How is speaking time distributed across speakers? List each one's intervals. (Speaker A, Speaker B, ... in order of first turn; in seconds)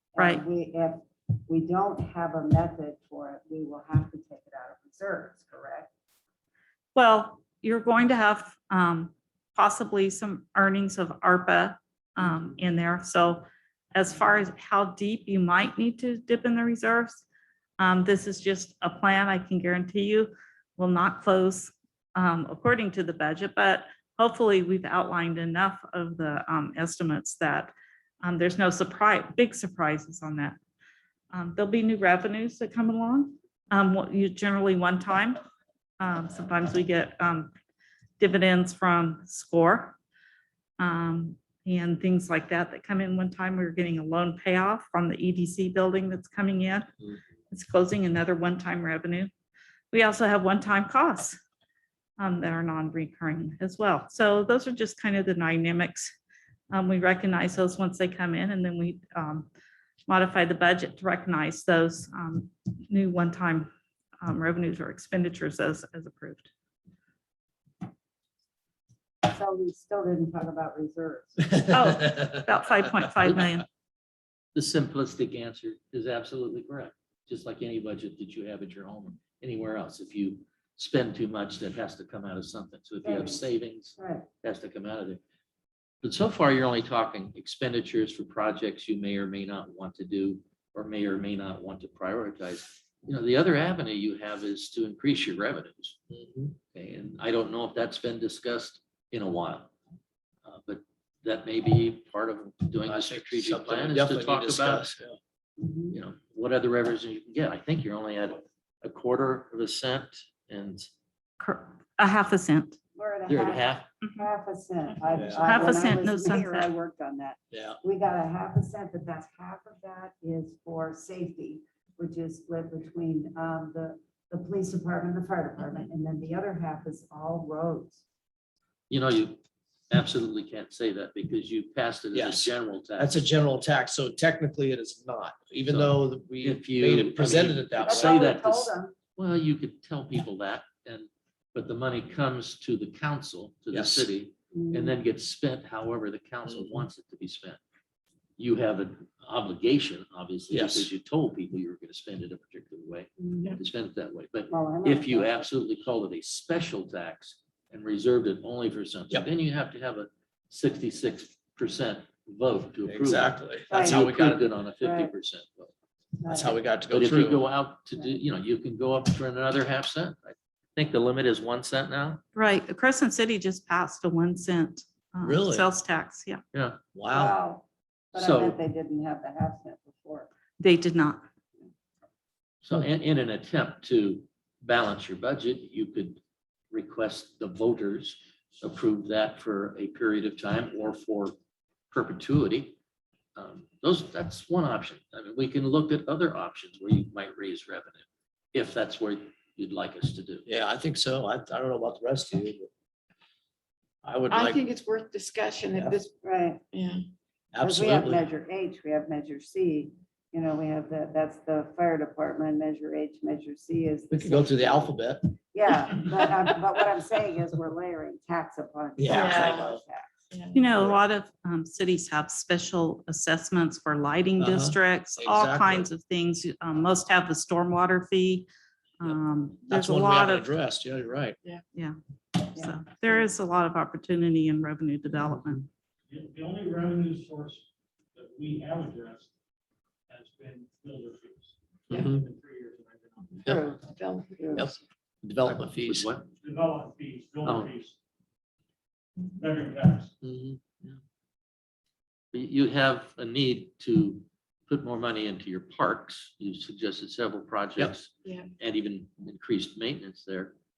Speaker A: 0.1-5.9, 69.3-71.7, 83.0-84.3, 105.6-106.0, 113.0-128.0, 137.8-138.9, 144.5-144.9, 153.2-153.5, 154.5-155.5, 163.7-164.0, 164.8-165.1, 166.2-166.6, 177.1-180.3, 206.2-206.6, 207.6-214.9, 215.5-220.1, 232.6-233.1, 243.4-244.7
Speaker B: 7.0-17.2, 17.8-30.6, 31.3-35.4, 36.0-37.5, 38.2-40.0, 40.8-47.0, 47.5-49.3, 49.9-51.4, 52.2-56.1, 56.7-59.5, 60.1-66.5, 71.7-73.7, 111.4-112.8, 114.0-114.3, 115.4-116.7, 172.3-176.4, 180.6-181.2, 220.5-228.5, 229.0-230.5, 231.7-235.7
Speaker C: 74.5-85.2, 86.0-96.0, 96.7-99.7, 100.5-104.9, 105.9-110.9, 113.3-113.9, 128.9-133.1, 135.7-147.6, 148.4-165.7, 166.9-172.2, 176.5-176.8, 178.2-178.6, 182.6-191.3, 191.9-192.8, 193.4-198.0, 198.5-200.4, 245.8-246.3, 247.4-247.7, 250.2-250.9, 252.3-260.6
Speaker D: 96.1-96.6, 102.8-105.2, 115.1-115.7, 117.5-117.8, 132.1-138.2, 143.7-144.1, 150.5-150.9, 162.9-164.4, 166.3-167.4, 175.2-175.7, 176.9-177.4, 200.5-202.7, 204.0-204.6, 207.5-208.2, 214.1-215.3, 219.0-219.8, 224.4-225.9, 229.7-231.4, 241.9-242.2, 243.4-243.7, 244.6-246.1
Speaker E: 204.3-206.1, 206.7-207.1, 219.1-219.7, 220.3-220.7, 243.4-244.8
Speaker F: 236.1-239.3, 240.1-243.4, 246.4-247.9, 249.3-250.1